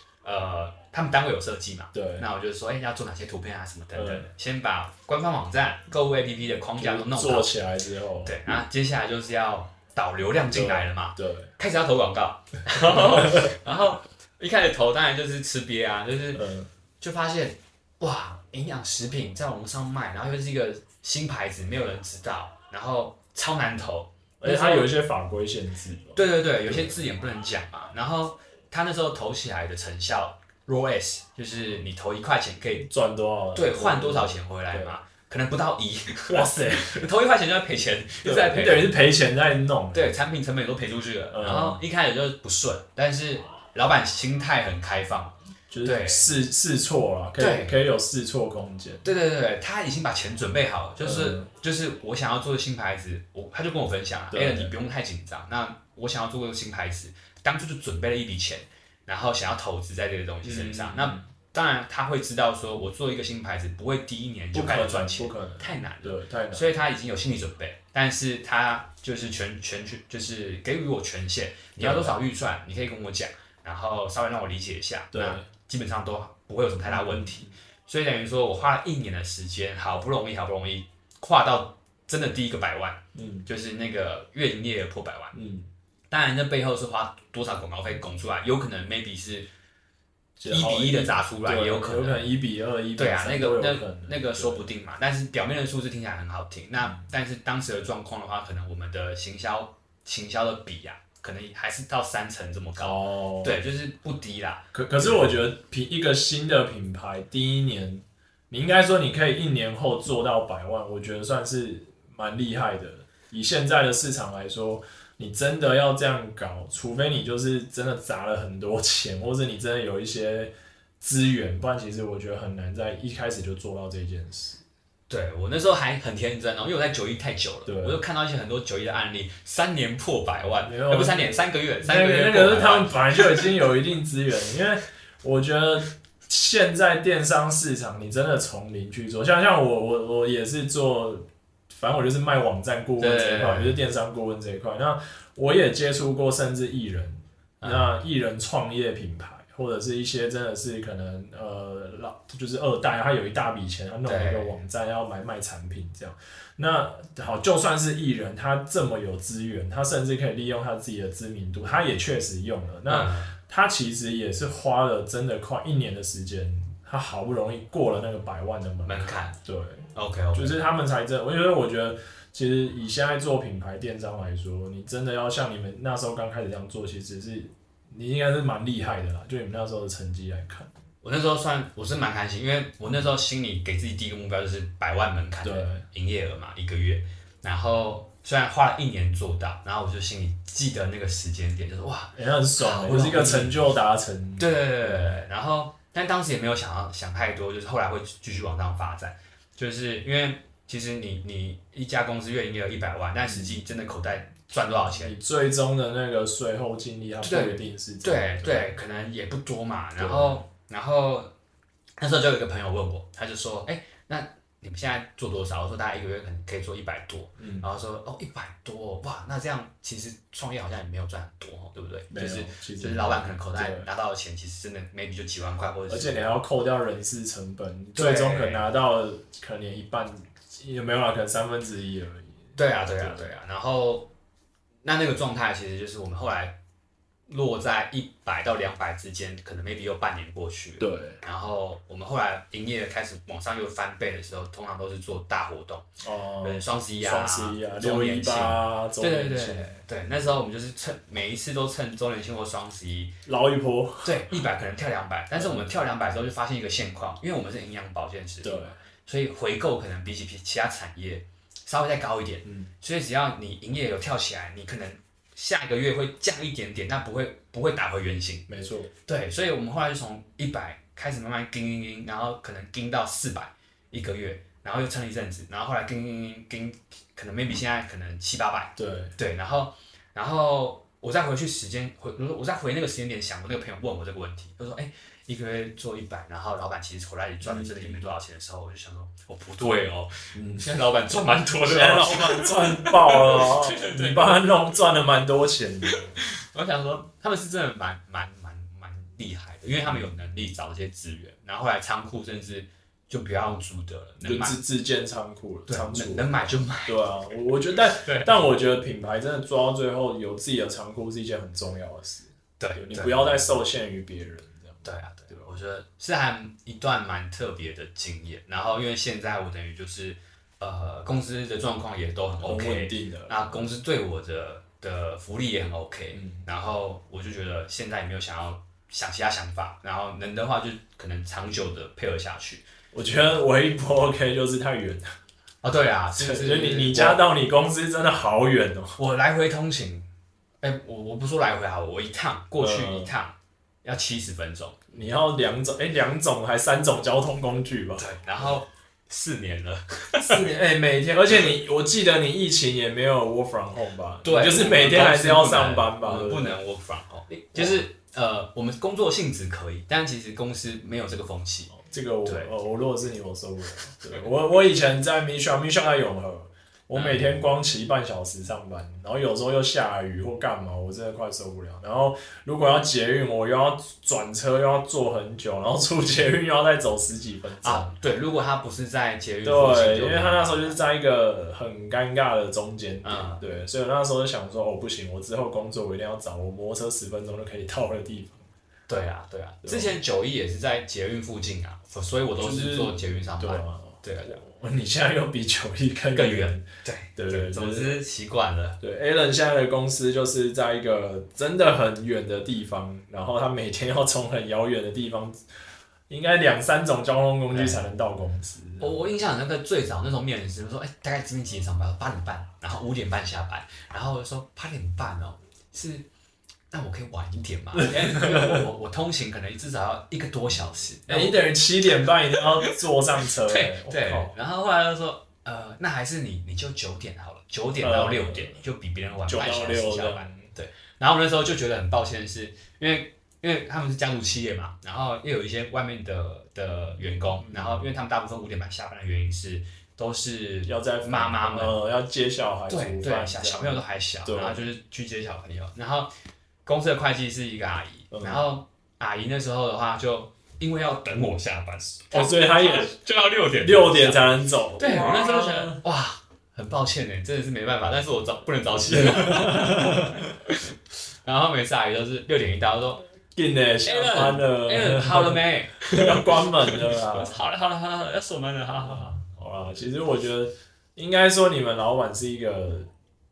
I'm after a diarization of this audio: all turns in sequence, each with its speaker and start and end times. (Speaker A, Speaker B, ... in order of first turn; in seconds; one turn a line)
Speaker A: 0.2-7.5
Speaker B: 1.9-2.2
Speaker B: 3.9-4.2
Speaker B: 6.8-8.3
Speaker A: 8.2-16.4
Speaker B: 10.5-11.5
Speaker B: 12.9-13.5
Speaker B: 16.3-16.7
Speaker A: 17.0-24.9
Speaker B: 24.4-27.0
Speaker A: 26.1-32.9
Speaker B: 32.9-35.0
Speaker A: 33.5-38.9
Speaker B: 36.3-37.0
Speaker B: 38.2-40.1
Speaker A: 39.9-46.3
Speaker B: 41.3-41.8
Speaker B: 45.7-49.1
Speaker A: 47.4-47.8
Speaker A: 49.0-85.3
Speaker B: 51.0-51.5
Speaker B: 54.3-54.7
Speaker B: 60.4-61.3
Speaker B: 64.5-66.7
Speaker B: 71.8-72.2
Speaker B: 75.1-75.5
Speaker B: 76.8-77.5
Speaker B: 83.1-83.5
Speaker B: 85.3-85.7
Speaker A: 86.1-89.5
Speaker B: 90.4-94.7
Speaker A: 90.5-92.3
Speaker A: 93.0-105.3
Speaker B: 102.8-103.6
Speaker B: 104.7-124.6
Speaker A: 125.1-133.5
Speaker B: 127.7-128.0
Speaker B: 130.6-180.7
Speaker A: 143.0-143.8
Speaker A: 147.6-147.9
Speaker A: 154.0-154.6
Speaker A: 162.9-163.3
Speaker A: 168.8-169.3
Speaker A: 169.9-170.6
Speaker A: 181.0-193.6
Speaker B: 185.4-185.8
Speaker B: 192.2-195.2
Speaker A: 194.4-205.2
Speaker B: 203.2-203.6
Speaker B: 205.0-208.7
Speaker A: 207.2-211.3
Speaker B: 210.0-210.4
Speaker A: 212.0-226.3
Speaker B: 217.4-217.7
Speaker B: 222.1-223.9
Speaker B: 225.9-232.4
Speaker A: 227.9-228.7
Speaker A: 232.6-234.1
Speaker B: 233.0-233.3
Speaker A: 234.8-236.6
Speaker A: 237.3-245.9
Speaker B: 240.8-241.2
Speaker B: 246.0-249.7
Speaker A: 246.4-253.1
Speaker B: 253.2-254.3
Speaker A: 254.0-268.4
Speaker B: 255.3-255.8
Speaker B: 258.4-258.8
Speaker B: 262.4-262.7
Speaker B: 268.5-268.9
Speaker A: 269.1-294.5
Speaker B: 278.8-279.1
Speaker B: 287.4-287.9
Speaker B: 290.3-290.6
Speaker B: 291.6-296.2
Speaker A: 295.9-304.6
Speaker B: 304.2-306.3
Speaker A: 305.7-307.0
Speaker B: 306.9-315.5
Speaker A: 307.8-308.5
Speaker A: 312.6-313.6
Speaker A: 314.8-332.6
Speaker B: 322.4-323.6
Speaker B: 326.1-326.4
Speaker B: 332.9-335.1
Speaker A: 335.6-337.2
Speaker B: 336.1-339.0
Speaker A: 339.0-340.1
Speaker A: 340.6-344.8
Speaker B: 342.6-343.1
Speaker B: 344.9-348.6
Speaker A: 348.0-350.5
Speaker B: 350.2-356.6
Speaker A: 354.2-362.5
Speaker B: 357.5-357.8
Speaker B: 361.7-377.9
Speaker A: 366.9-367.4
Speaker A: 377.6-380.8
Speaker B: 379.4-388.5
Speaker A: 383.0-383.4
Speaker A: 388.9-394.4
Speaker B: 389.6-389.9
Speaker B: 392.4-396.6
Speaker A: 396.1-398.8
Speaker B: 397.2-397.9
Speaker B: 398.8-405.4
Speaker B: 406.1-409.1
Speaker A: 407.5-407.8
Speaker A: 408.8-416.1
Speaker A: 416.7-421.4
Speaker B: 417.7-418.6
Speaker B: 421.1-424.3
Speaker A: 422.3-441.8
Speaker B: 427.8-428.6
Speaker B: 429.2-430.5
Speaker B: 437.4-437.9
Speaker B: 440.6-444.6
Speaker A: 442.7-446.1
Speaker A: 446.6-460.7
Speaker B: 448.1-448.4
Speaker B: 452.1-452.9
Speaker B: 453.6-455.8
Speaker B: 458.8-460.3
Speaker A: 461.2-463.0
Speaker B: 463.3-467.3
Speaker A: 463.8-469.2
Speaker B: 468.8-472.9